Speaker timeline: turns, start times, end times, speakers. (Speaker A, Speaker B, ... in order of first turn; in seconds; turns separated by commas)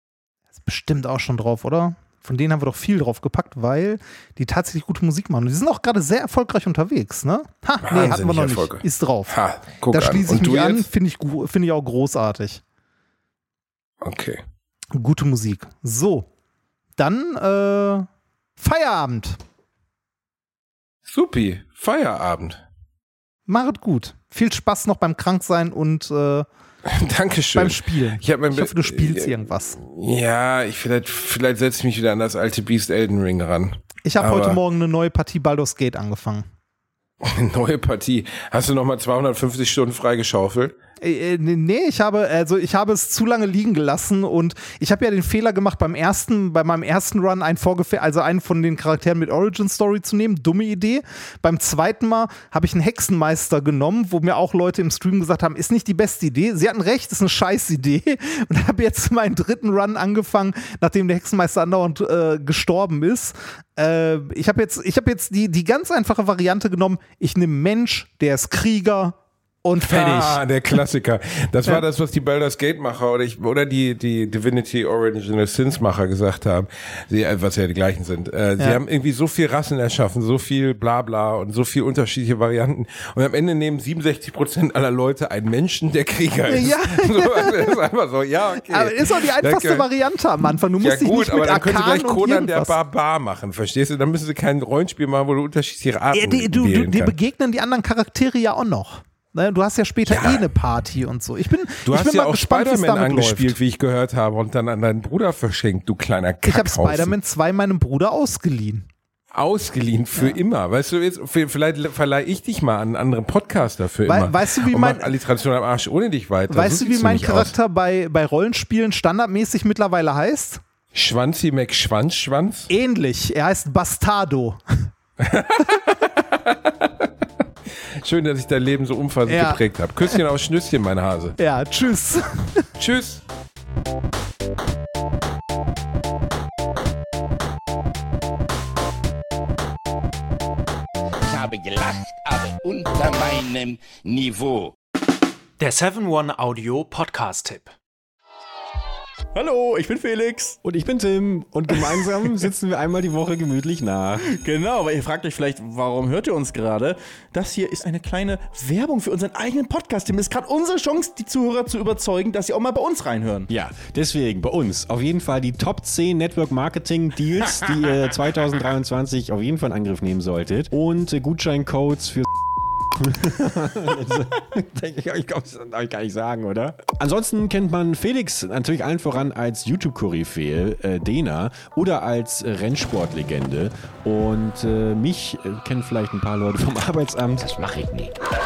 Speaker A: 0.5-9.3, Speaker B: 7.8-10.9, Speaker A: 9.9-12.6, Speaker B: 14.0-14.4, Speaker A: 14.9-16.3, Speaker A: 17.0-18.1, Speaker A: 18.6-19.4, Speaker B: 21.1-22.6, Speaker A: 23.5-26.5, Speaker B: 26.9-34.6, Speaker A: 27.5-29.8, Speaker A: 34.0-36.5, Speaker B: 37.2-40.7, Speaker A: 41.0-70.8, Speaker B: 69.8-89.8, Speaker A: 86.5-87.8, Speaker A: 88.6-92.7, Speaker B: 90.8-97.1, Speaker A: 96.1-103.5, Speaker B: 100.1-100.5, Speaker B: 101.8-107.1, Speaker A: 106.4-108.9, Speaker B: 109.3-117.5, Speaker A: 114.0-115.1, Speaker A: 116.5-120.6, Speaker B: 120.9-122.7, Speaker A: 122.7-124.9, Speaker B: 125.2-127.1, Speaker B: 128.0-131.3, Speaker A: 129.3-130.2, Speaker A: 131.4-132.7, Speaker B: 132.8-133.2, Speaker C: 141.2-144.7, Speaker D: 145.6-147.7, Speaker E: 149.3-150.6, Speaker F: 150.6-154.3, Speaker E: 154.4-163.5, Speaker F: 163.5-172.3, Speaker F: 173.0-187.9, Speaker C: 187.5-188.1